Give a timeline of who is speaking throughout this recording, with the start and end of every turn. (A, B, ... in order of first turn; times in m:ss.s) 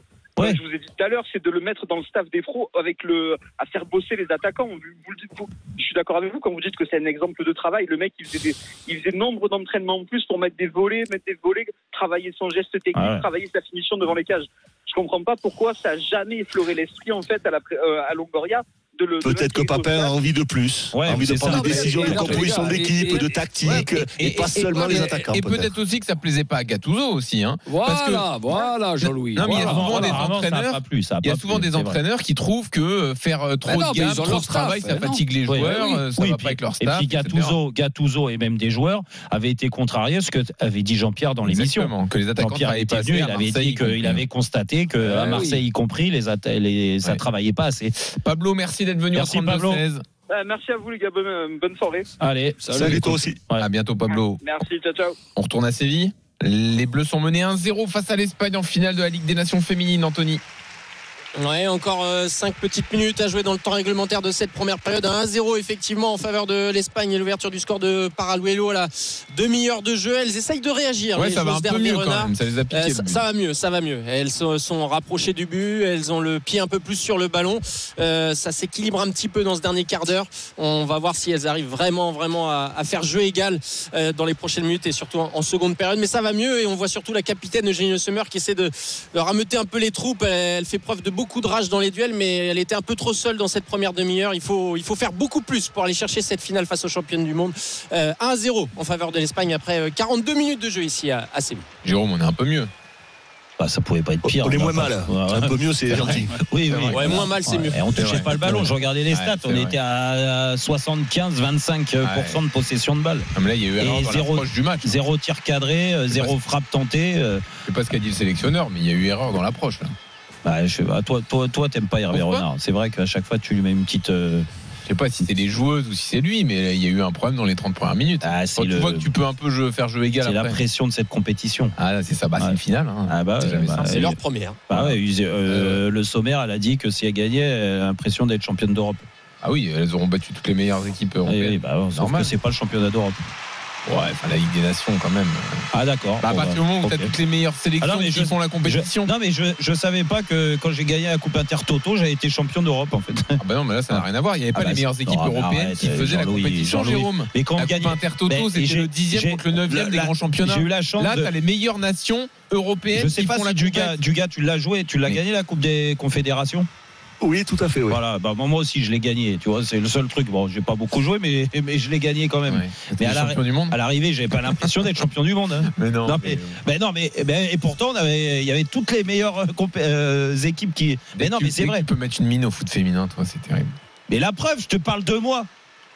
0:00.4-0:20.1 A
0:12.9-0:13.2 B
0:19.2-0:25.7 C
0:20.9-0:22.4 B
0:21.3-0:23.9 D
0:23.7-0:28.7 E
0:24.7-0:25.2 D
0:27.6-0:30.3 D
0:29.3-0:37.6 E
0:29.4-0:32.0 B
0:33.6-0:35.9 D
0:35.4-0:47.9 B
0:41.4-0:44.2 E
0:45.0-0:45.4 E
0:45.1-0:45.6 D
0:48.1-0:50.0 E
0:49.1-0:49.8 B
0:50.3-0:52.1 A
0:52.2-0:53.7 B
0:52.6-0:53.2 D
0:52.8-0:53.4 C
0:53.6-0:54.4 E
0:54.4-0:55.2 A
0:55.4-1:00.4 E
1:01.4-1:41.6 F
1:11.1-1:13.2 E
1:41.8-1:42.7 E
1:43.6-1:53.3 B
1:44.2-1:46.3 C
1:46.7-1:47.3 E
1:46.9-1:48.2 F
1:47.9-1:49.7 E
1:52.0-1:52.4 E
1:53.3-1:55.0 E
1:53.8-1:57.4 B
1:57.6-1:59.9 E
2:00.4-2:04.5 B
2:02.1-2:02.4 E
2:04.9-2:10.6 E
2:08.2-2:09.1 B
2:10.2-2:11.7 B
2:11.8-2:14.1 E
2:12.4-2:19.1 B
2:13.9-2:14.6 F
2:14.7-2:15.8 E
2:19.4-2:22.3 E
2:21.2-2:23.2 B
2:23.8-2:25.7 E
2:25.7-2:27.1 B
2:26.2-2:29.1 E
2:27.8-2:33.4 B
2:33.4-2:44.0 E
2:33.9-2:41.3 B
2:42.9-2:46.7 B
2:47.2-2:48.0 C
2:47.9-3:01.9 B
2:52.5-2:53.8 E
2:55.7-2:56.6 E
3:01.2-3:03.8 E
3:04.1-3:05.5 B